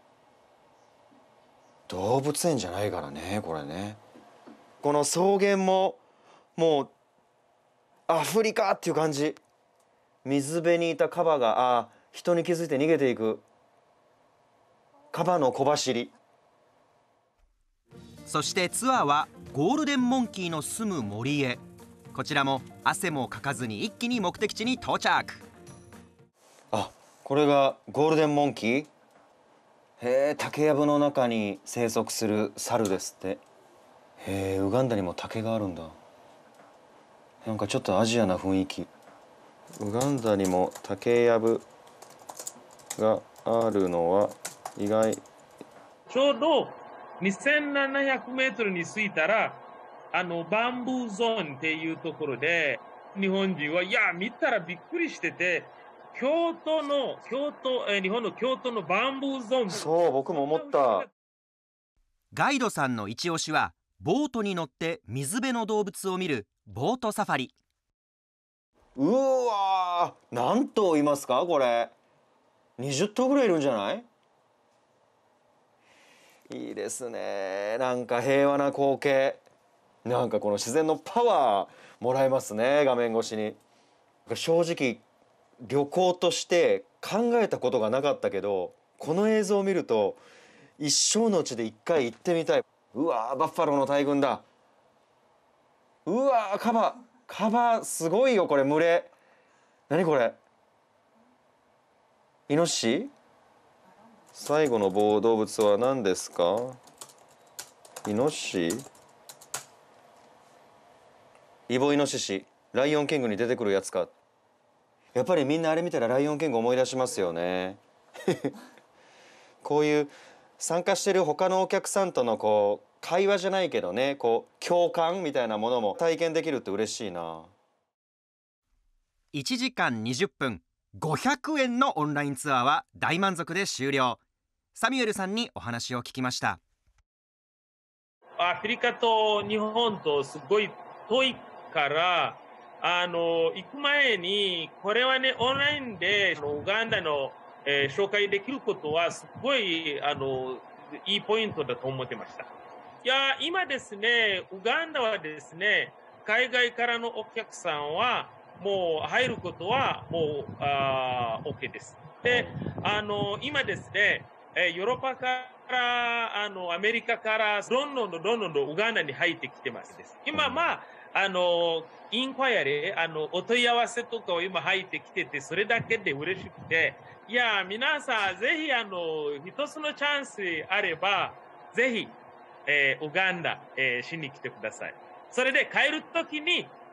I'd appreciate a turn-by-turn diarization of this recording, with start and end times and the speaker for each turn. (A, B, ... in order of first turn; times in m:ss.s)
0:01.9-0:04.0 A
0:04.8-0:06.0 A
0:06.6-0:06.9 A
0:08.1-0:09.4 A
0:10.2-0:13.5 A
0:15.1-0:16.1 A
0:18.3-0:21.6 B
0:22.1-0:25.5 B
0:26.7-0:28.9 A
0:30.0-0:33.4 A
0:34.2-0:36.0 A
0:37.4-0:38.9 A
0:39.8-0:41.7 A
0:43.0-0:45.2 A
0:46.1-1:01.1 C
0:59.7-1:01.1 A
1:02.3-1:07.6 B
1:09.0-1:11.9 A
1:12.8-1:14.1 A
1:16.5-1:19.4 A
1:20.0-1:23.6 A
1:24.3-1:25.0 A
1:25.6-1:30.2 A
1:30.8-1:34.4 A
1:36.1-1:39.1 A
1:39.9-1:40.4 A
1:42.5-1:43.1 A
1:44.3-1:46.8 A
1:48.0-1:48.9 A
1:51.7-1:54.1 A
1:55.2-1:58.4 A
1:59.6-2:07.5 A
2:09.3-2:14.2 B
2:14.8-2:16.6 B
2:18.4-2:32.5 C
2:33.0-3:06.8 C
2:42.2-2:42.5 A